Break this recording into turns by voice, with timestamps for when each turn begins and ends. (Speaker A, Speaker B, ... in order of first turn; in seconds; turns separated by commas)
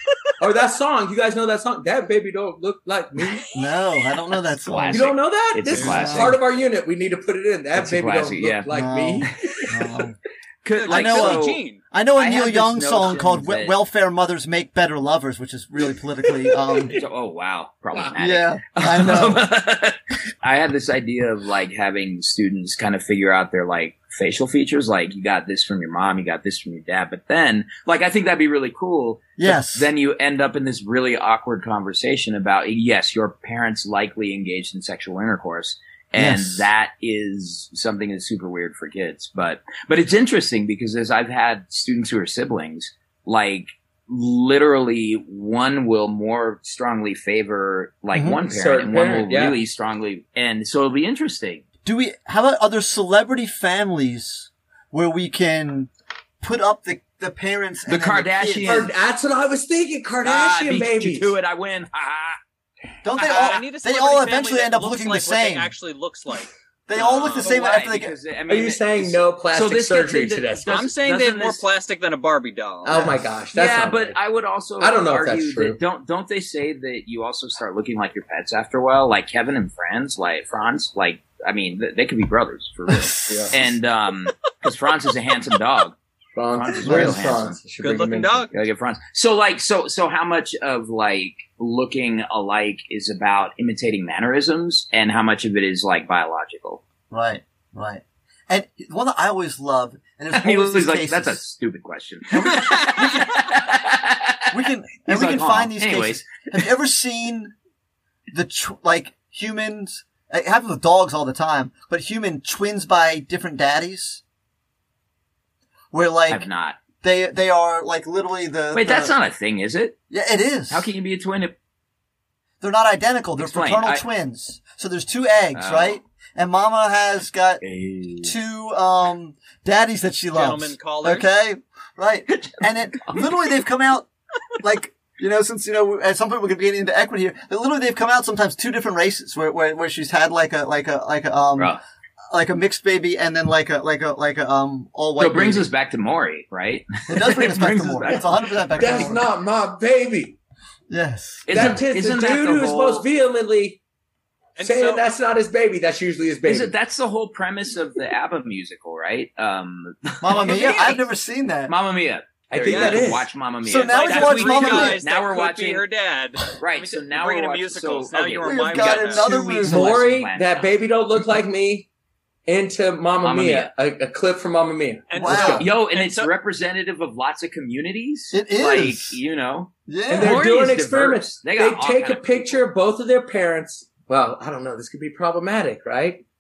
Speaker A: 0.4-3.5, Speaker B: 3.5-5.1, Speaker C: 4.7-6.4, Speaker A: 4.9-9.3, Speaker B: 5.8-6.4, Speaker C: 7.8-8.7, Speaker B: 8.7-10.2, Speaker C: 10.6-11.6, Speaker D: 10.8-11.8, Speaker B: 10.9-17.0, Speaker C: 12.2-13.8, Speaker C: 16.9-51.6, Speaker B: 18.2-19.5, Speaker B: 29.4-29.9, Speaker B: 36.2-36.7, Speaker B: 48.1-48.4, Speaker A: 48.4-49.6, Speaker B: 51.9-55.9, Speaker B: 56.4-58.9, Speaker C: 57.9-58.9, Speaker A: 58.6-61.3, Speaker C: 60.2-62.4, Speaker B: 63.0-65.7, Speaker D: 63.2-66.5, Speaker B: 66.9-68.2, Speaker C: 67.0-71.6, Speaker A: 68.5-70.7, Speaker D: 70.7-73.1, Speaker A: 72.8-74.2, Speaker B: 72.9-73.2, Speaker C: 73.5-86.0, Speaker A: 74.8-75.8, Speaker B: 82.9-83.6, Speaker A: 83.3-83.6, Speaker A: 86.4-88.5, Speaker C: 86.5-87.6, Speaker B: 86.8-87.3, Speaker D: 87.8-88.5, Speaker C: 88.5-96.8, Speaker B: 97.1-101.4, Speaker C: 100.3-106.7, Speaker B: 102.5-103.3, Speaker B: 104.5-107.5, Speaker B: 108.3-114.2, Speaker B: 115.9-116.5, Speaker C: 116.3-116.8, Speaker B: 117.0-119.1, Speaker C: 118.7-120.0, Speaker B: 120.1-120.9, Speaker C: 120.7-121.6, Speaker B: 122.6-127.6, Speaker C: 123.4-124.0, Speaker C: 125.5-126.0, Speaker C: 127.6-128.4, Speaker B: 128.2-134.1, Speaker D: 130.3-131.3, Speaker C: 132.3-133.3, Speaker B: 134.6-141.8, Speaker B: 142.3-145.7, Speaker C: 145.2-148.3, Speaker B: 147.1-149.2, Speaker A: 148.8-150.4, Speaker B: 150.9-151.8, Speaker C: 151.5-153.1, Speaker A: 151.5-153.8, Speaker D: 154.6-155.1, Speaker A: 154.6-156.7, Speaker C: 156.5-161.0, Speaker B: 160.2-161.7, Speaker D: 160.4-160.9, Speaker C: 161.7-165.8, Speaker A: 162.5-163.3, Speaker D: 162.6-163.2, Speaker B: 163.6-165.0, Speaker D: 163.8-169.4, Speaker C: 166.6-170.7, Speaker B: 168.4-169.9, Speaker A: 169.6-171.9, Speaker A: 172.5-175.7, Speaker C: 173.2-173.7, Speaker D: 175.1-176.3, Speaker B: 175.2-175.7, Speaker C: 175.6-182.6, Speaker B: 178.3-179.2, Speaker B: 179.9-180.4, Speaker A: 180.1-186.2